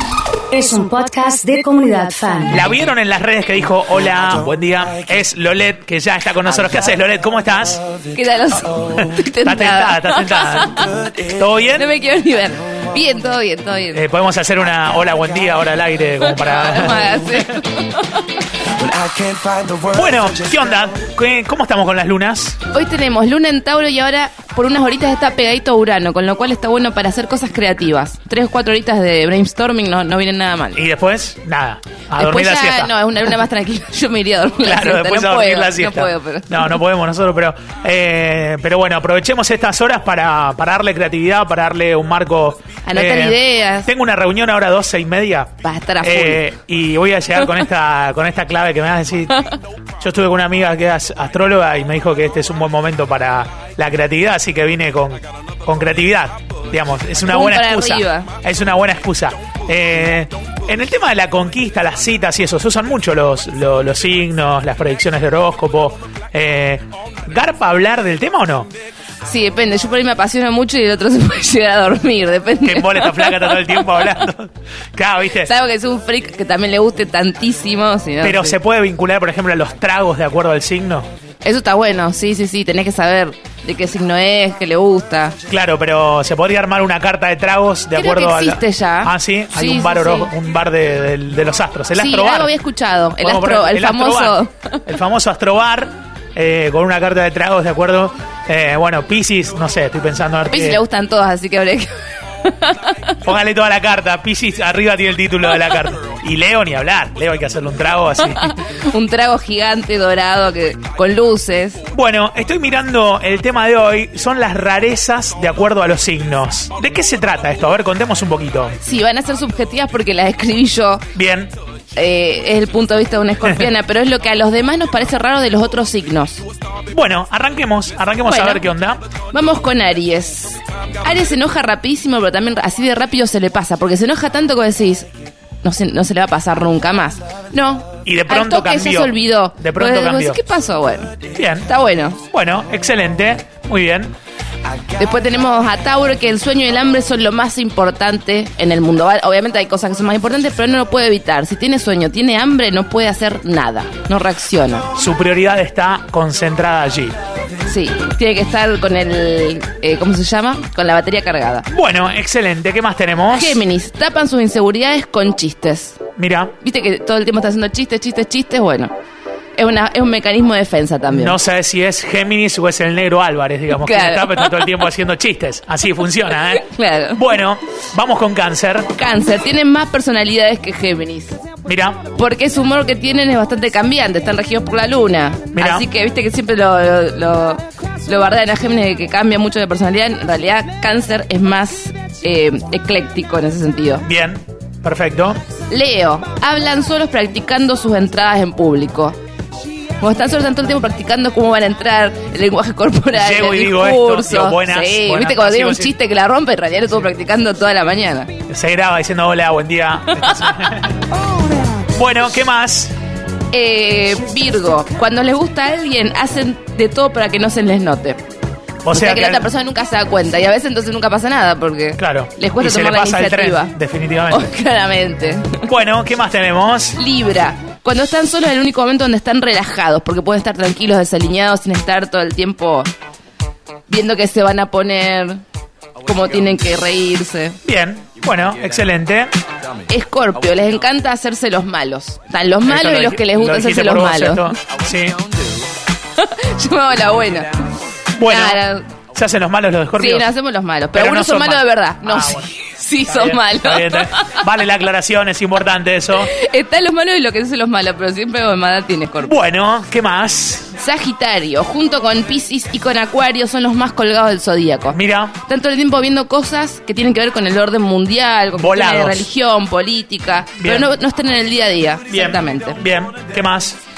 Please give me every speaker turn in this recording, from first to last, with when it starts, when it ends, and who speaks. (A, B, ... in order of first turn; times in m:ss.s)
0:00.5-0:02.7 A
0:02.5-0:07.8 B
0:08.1-0:11.1 C
0:09.4-0:11.9 B
0:11.7-0:14.0 C
0:13.9-0:17.5 B
0:16.2-0:18.4 C
0:19.8-0:22.6 B
0:22.7-0:30.8 C
0:30.7-0:32.9 B
0:32.1-0:36.8 C
0:34.6-0:49.4 B
0:42.8-0:43.9 C
0:45.6-0:46.4 C
0:50.0-1:08.7 B
0:57.3-0:58.3 C
1:09.2-1:14.1 C
1:12.6-1:15.5 B
1:15.4-1:18.6 C
1:18.2-1:21.1 B
1:21.4-1:25.4 C
1:25.5-1:32.5 B
1:27.9-1:30.3 C
1:31.9-1:34.8 C
1:33.2-1:40.8 B
1:40.5-1:43.2 C
1:43.2-1:48.5 B
1:48.4-1:51.8 C
1:51.9-1:58.8 B
1:58.8-2:01.1 C
2:01.1-2:01.5 B
2:02.0-2:06.4 C
2:06.9-2:09.0 B
2:08.2-2:08.7 C
2:09.3-2:15.1 C
2:15.6-2:22.2 C
2:18.0-2:20.4 B
2:21.3-2:21.7 B
2:22.3-2:24.1 B
2:24.9-2:34.9 C
2:34.9-2:37.1 B
2:37.7-2:41.7 C
2:41.7-2:43.6 B
2:43.3-2:46.0 C
2:46.2-2:46.5 B
2:46.6-2:48.9 C
2:49.6-2:51.4 C
2:51.1-2:58.9 B
2:53.7-2:54.8 C
2:56.5-2:57.2 C
2:58.9-3:01.4 C
3:01.6-3:02.0 B
3:02.1-3:14.0 C
3:05.5-3:05.9 B
3:14.0-3:15.4 B
3:15.7-3:19.2 C
3:20.0-3:28.3 C
3:23.1-3:25.9 B
3:28.5-3:30.9 B
3:30.2-3:30.8 C
3:31.9-3:32.9 B
3:33.5-3:38.2 C
3:38.8-3:39.5 B
3:38.9-3:43.7 C
3:42.0-3:44.5 B
3:44.3-3:45.7 C
3:45.6-3:47.0 B
3:47.0-3:52.9 C
3:53.9-3:55.4 C
3:56.0-3:57.6 C
3:57.6-3:59.3 B
3:59.9-4:04.5 C
4:02.6-4:05.2 B
4:06.2-4:07.5 C
4:08.2-4:08.6 B
4:08.2-4:08.8 C
4:09.1-4:10.3 B
4:10.0-4:14.4 C
4:10.9-4:12.5 B
4:13.0-4:16.3 B
4:16.2-4:19.4 C
4:19.2-4:20.7 B
4:20.8-4:32.8 C
4:24.9-4:25.4 B
4:28.5-4:29.2 B
4:30.6-4:30.9 B
4:32.1-4:33.8 B